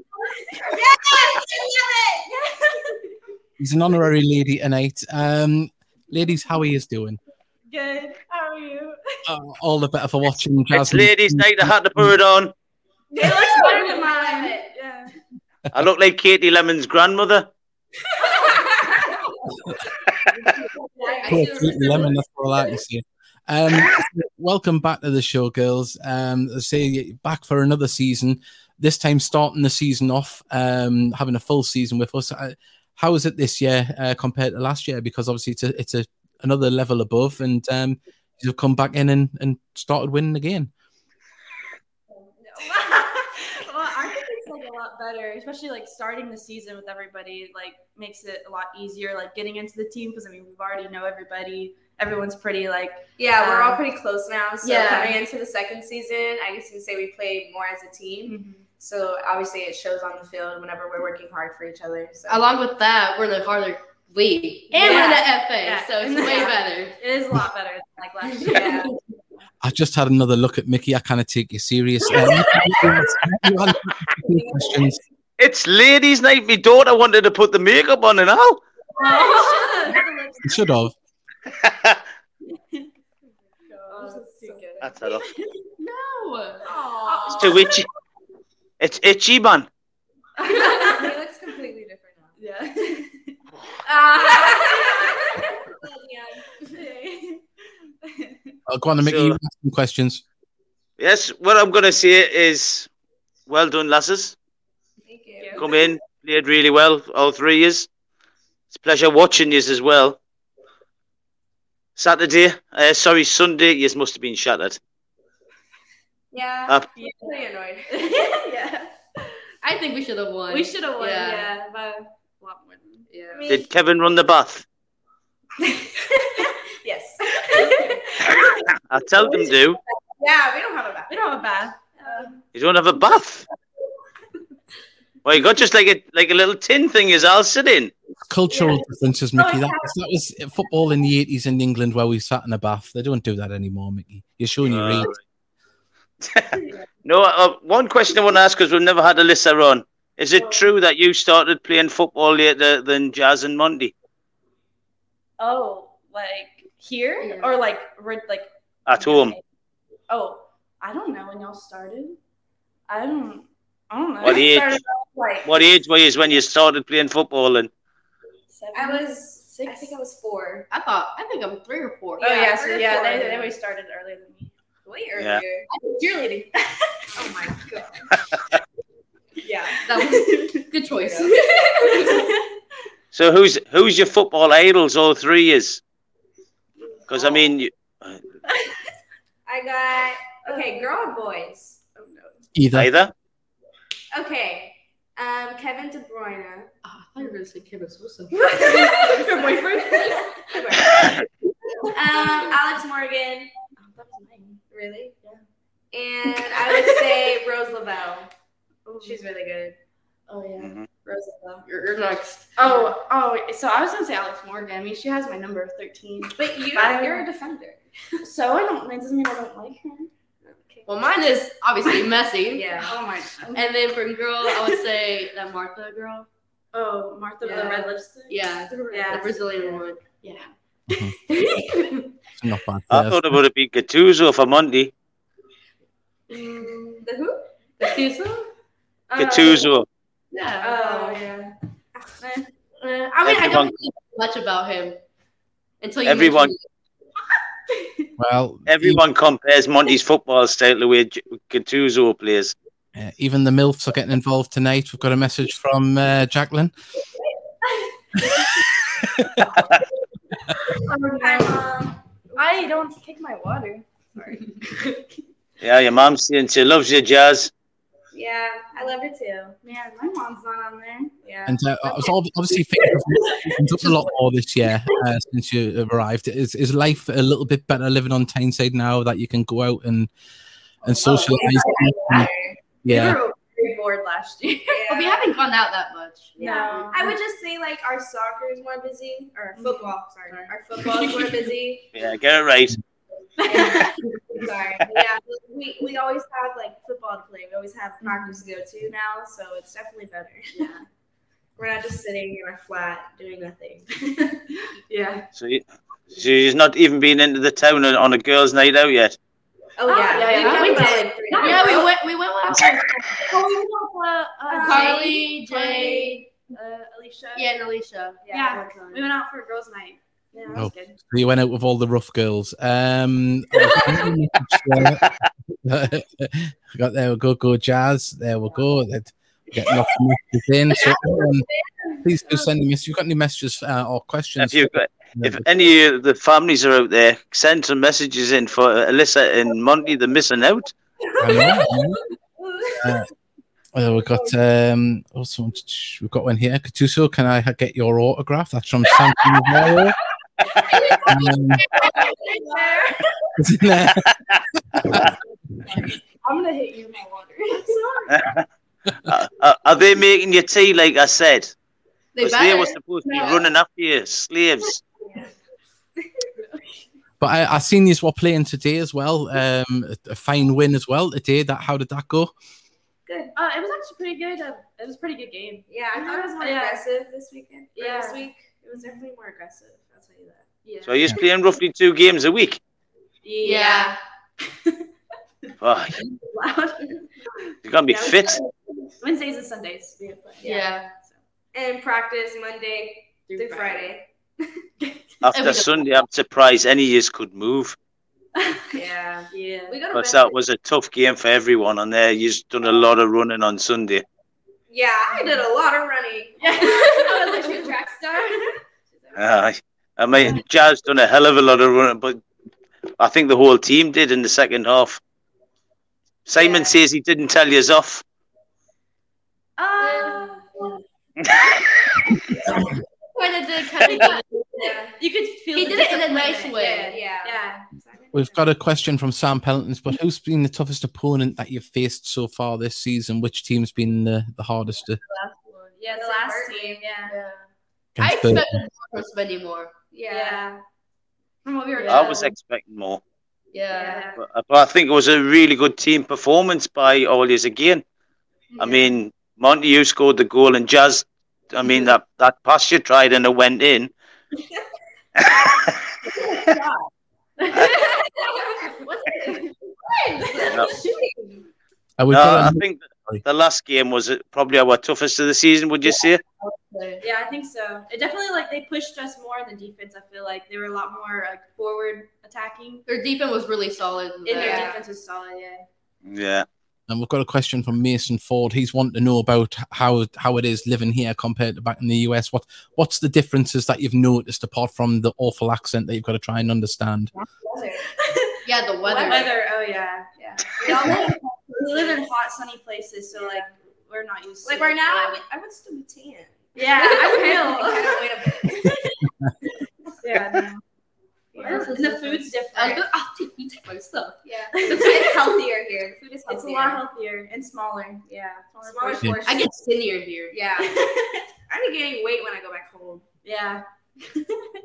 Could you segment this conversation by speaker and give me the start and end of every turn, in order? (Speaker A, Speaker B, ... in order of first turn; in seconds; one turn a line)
Speaker A: 0.5-0.8
Speaker B: 0.6-2.8
Speaker C: 3.6-7.2
Speaker A: 7.7-9.2
Speaker C: 9.3-12.2
Speaker D: 10.7-12.5
Speaker B: 13.1-14.7
Speaker A: 13.1-15.1
Speaker D: 15.7-17.5
Speaker A: 18.1-19.1
Speaker B: 18.5-19.1
Speaker A: 20.9-21.9
Speaker B: 21.0-21.8
Speaker E: 21.2-22.2
Speaker C: 21.3-40.7
Speaker B: 42.4-43.4
Speaker A: 42.5-53.8
Speaker B: 53.2-62.5
Speaker E: 54.6-55.1
Speaker A: 54.7-55.2
Speaker A: 58.2-58.7
Speaker E: 62.3-67.0
Speaker A: 64.7-68.9
Speaker B: 64.8-65.2
Speaker B: 66.2-66.5
Speaker B: 68.5-68.9
Speaker C: 69.6-75.0
Speaker A: 72.1-73.1
Speaker B: 74.3-75.0
Speaker D: 75.4-78.6
Speaker A: 79.0-80.8
Speaker B: 79.0-80.0
Speaker C: 80.4-80.9
Speaker D: 81.5-82.0
Speaker A: 83.7-85.5
Speaker B: 83.9-85.1
Speaker D: 84.8-85.3
Speaker E: 85.8-86.7
Speaker A: 86.7-87.9
Speaker B: 87.0-87.8
Speaker D: 87.3-87.9
Speaker D: 88.8-89.7
Speaker A: 90.4-91.1
Speaker B: 90.5-92.3
Speaker A: 92.4-95.5
Speaker B: 94.0-96.8
Speaker A: 96.6-97.4
Speaker A: 98.0-98.5
Speaker C: 98.7-100.2
Speaker D: 99.0-99.4
Speaker D: 101.0-102.9
Speaker D: 103.5-104.3
Speaker B: 105.1-105.7
Speaker A: 105.4-105.9
Speaker D: 105.6-107.9
Speaker D: 108.7-110.2
Speaker D: 112.0-114.8
Speaker B: 116.3-118.4
Speaker A: 117.0-117.4
Speaker A: 117.9-119.3
Speaker E: 119.6-121.5
Speaker A: 120.5-123.1
Speaker E: 123.1-123.4
Speaker B: 123.3-123.7
Speaker D: 123.5-124.7
Speaker A: 125.7-129.6
Speaker B: 127.2-128.5
Speaker D: 128.8-129.8
Speaker B: 130.2-132.4
Speaker A: 131.1-132.3
Speaker D: 132.5-133.4
Speaker D: 135.2-137.9
Speaker C: 138.3-145.1
Speaker A: 138.5-138.8
Speaker A: 139.4-139.9
Speaker D: 144.6-145.2
Speaker D: 146.2-153.9
Speaker A: 150.3-150.7
Speaker A: 155.4-159.4
Speaker E: 157.2-157.6
Speaker D: 158.8-159.4
Speaker A: 160.1-162.2
Speaker A: 162.9-165.7
Speaker D: 164.2-164.8
Speaker D: 165.4-167.7
Speaker A: 168.5-169.9
Speaker B: 168.7-170.7
Speaker E: 170.7-173.5
Speaker A: 172.2-174.5
Speaker B: 172.7-173.4
Speaker B: 174.8-175.7
Speaker D: 175.2-175.4
Speaker A: 175.7-177.3
Speaker B: 177.1-178.1
Speaker B: 179.4-179.8
Speaker A: 179.7-180.6
Speaker E: 179.8-182.2
Speaker A: 181.2-182.4
Speaker B: 181.8-182.1
Speaker D: 183.1-185.8
Speaker D: 187.1-188.2
Speaker B: 187.1-187.4
Speaker B: 189.4-192.3
Speaker A: 190.4-191.0
Speaker A: 191.9-192.3
Speaker C: 192.5-192.9
Speaker D: 192.7-193.1
Speaker B: 194.1-196.7
Speaker E: 196.8-198.7
Speaker A: 198.3-201.1
Speaker B: 198.5-201.2
Speaker B: 201.9-203.5
Speaker A: 202.1-202.6
Speaker A: 203.7-204.6
Speaker B: 204.7-205.2
Speaker B: 205.9-208.3
Speaker A: 208.8-209.3
Speaker B: 209.0-209.8
Speaker A: 210.3-211.6
Speaker D: 210.6-210.9
Speaker E: 211.7-212.9
Speaker A: 212.6-217.3
Speaker B: 216.3-217.8
Speaker A: 218.2-220.1
Speaker E: 220.8-222.9
Speaker B: 222.5-222.9
Speaker A: 222.8-223.7
Speaker E: 223.5-226.3
Speaker A: 224.5-224.8
Speaker A: 226.7-232.1
Speaker B: 227.4-228.1
Speaker E: 228.3-230.0
Speaker C: 230.9-231.2
Speaker C: 232.3-233.4
Speaker D: 232.9-234.9
Speaker A: 236.3-237.0
Speaker B: 236.9-237.5
Speaker E: 237.8-238.5
Speaker A: 239.1-239.7
Speaker D: 239.1-239.8
Speaker A: 240.3-241.5
Speaker B: 240.6-242.1
Speaker A: 242.2-242.5
Speaker E: 242.8-245.0
Speaker D: 243.2-243.7
Speaker E: 245.8-246.6
Speaker D: 246.0-246.5
Speaker C: 248.2-249.0
Speaker D: 248.7-252.5
Speaker C: 252.9-256.7
Speaker A: 257.6-258.6
Speaker C: 259.2-259.4
Speaker A: 260.5-265.0
Speaker B: 261.2-262.8
Speaker D: 265.6-267.5
Speaker B: 268.1-269.6
Speaker A: 269.6-271.1
Speaker B: 271.2-272.1
Speaker C: 271.4-280.1
Speaker A: 272.8-273.9
Speaker C: 280.8-282.3
Speaker A: 280.8-282.2
Speaker B: 281.1-282.6
Speaker C: 282.8-283.2
Speaker A: 282.8-284.8
Speaker B: 284.7-285.3
Speaker E: 284.8-286.8
Speaker B: 286.4-291.9
Speaker A: 286.4-287.2
Speaker A: 289.5-291.6
Speaker D: 291.9-292.8
Speaker A: 293.4-295.0
Speaker B: 293.4-300.8
Speaker A: 298.0-298.9
Speaker A: 300.5-300.8
Speaker B: 301.6-304.3
Speaker A: 304.5-305.3
Speaker D: 305.3-309.1
Speaker B: 309.8-311.9
Speaker A: 309.8-312.0
Speaker E: 310.2-313.3
Speaker A: 313.3-317.6
Speaker B: 314.5-315.3
Speaker E: 314.6-316.2
Speaker E: 317.3-319.2
Speaker B: 318.2-318.6
Speaker A: 318.3-320.9
Speaker B: 320.3-320.7
Speaker C: 320.5-331.5
Speaker A: 323.7-324.1
Speaker D: 324.7-325.1
Speaker A: 330.8-331.3
Speaker A: 331.9-332.5
Speaker C: 332.0-335.4
Speaker D: 334.4-340.7
Speaker A: 341.1-343.0
Speaker C: 341.2-342.0
Speaker C: 342.8-343.1
Speaker C: 343.7-350.0
Speaker A: 344.1-344.3
Speaker A: 348.9-349.8
Speaker A: 350.7-353.2
Speaker C: 351.1-351.7
Speaker B: 351.8-353.0
Speaker C: 353.4-355.1
Speaker A: 355.7-358.3
Speaker D: 358.1-358.4
Speaker D: 359.1-361.5
Speaker E: 362.1-363.5
Speaker D: 362.2-364.8
Speaker C: 367.2-372.3
Speaker B: 373.1-373.3
Speaker A: 373.3-376.8
Speaker B: 375.7-380.5
Speaker A: 377.7-379.0
Speaker A: 380.6-381.2
Speaker D: 380.8-382.6
Speaker A: 383.2-383.9
Speaker E: 383.4-384.0
Speaker A: 384.5-384.8
Speaker A: 385.5-391.1
Speaker D: 385.6-385.9
Speaker D: 387.6-388.4
Speaker E: 390.4-390.9
Speaker B: 391.5-394.5
Speaker E: 393.2-393.9
Speaker D: 395.2-397.7
Speaker E: 395.3-395.9
Speaker A: 398.4-400.2
Speaker B: 398.7-399.3
Speaker D: 399.9-404.0
Speaker B: 404.7-408.6
Speaker A: 405.1-405.4
Speaker A: 406.4-408.5
Speaker D: 409.1-412.2
Speaker D: 413.0-415.0
Speaker D: 416.2-418.0
Speaker A: 416.4-416.7
Speaker A: 419.6-420.7
Speaker E: 419.8-420.8
Speaker E: 423.1-424.3
Speaker A: 423.8-427.7
Speaker B: 424.6-424.9
Speaker E: 425.5-427.0
Speaker B: 426.7-428.4
Speaker C: 428.1-435.0
Speaker A: 435.1-437.2
Speaker B: 435.6-436.9
Speaker E: 437.1-437.4
Speaker C: 437.9-438.7
Speaker E: 438.0-439.7
Speaker B: 439.9-440.6
Speaker A: 440.1-440.6
Speaker A: 441.4-442.3
Speaker E: 441.7-442.3
Speaker D: 441.9-443.0
Speaker E: 443.5-444.1
Speaker A: 443.7-444.2
Speaker D: 444.2-447.8
Speaker A: 448.5-449.0
Speaker D: 448.6-453.9
Speaker A: 456.1-461.3
Speaker B: 460.2-461.4
Speaker C: 462.0-463.2
Speaker D: 462.1-466.2
Speaker E: 465.9-467.0
Speaker A: 467.0-472.8
Speaker E: 472.9-474.7
Speaker A: 474.2-475.7
Speaker B: 474.3-474.9
Speaker D: 476.1-476.4
Speaker C: 476.9-487.1
Speaker A: 487.1-495.2
Speaker B: 487.5-487.8
Speaker E: 488.4-489.4
Speaker B: 488.9-489.3
Speaker B: 490.1-492.1
Speaker E: 490.7-491.1
Speaker B: 493.1-493.5
Speaker B: 494.4-498.9
Speaker A: 496.5-499.0
Speaker A: 500.0-500.6
Speaker B: 501.3-501.9
Speaker A: 501.3-503.0
Speaker E: 501.4-505.4
Speaker B: 504.2-506.8
Speaker A: 504.5-505.2
Speaker A: 506.3-509.2
Speaker B: 508.1-509.6
Speaker E: 509.2-510.4
Speaker B: 510.3-510.8
Speaker A: 510.6-511.2
Speaker B: 511.5-513.1
Speaker A: 513.2-514.4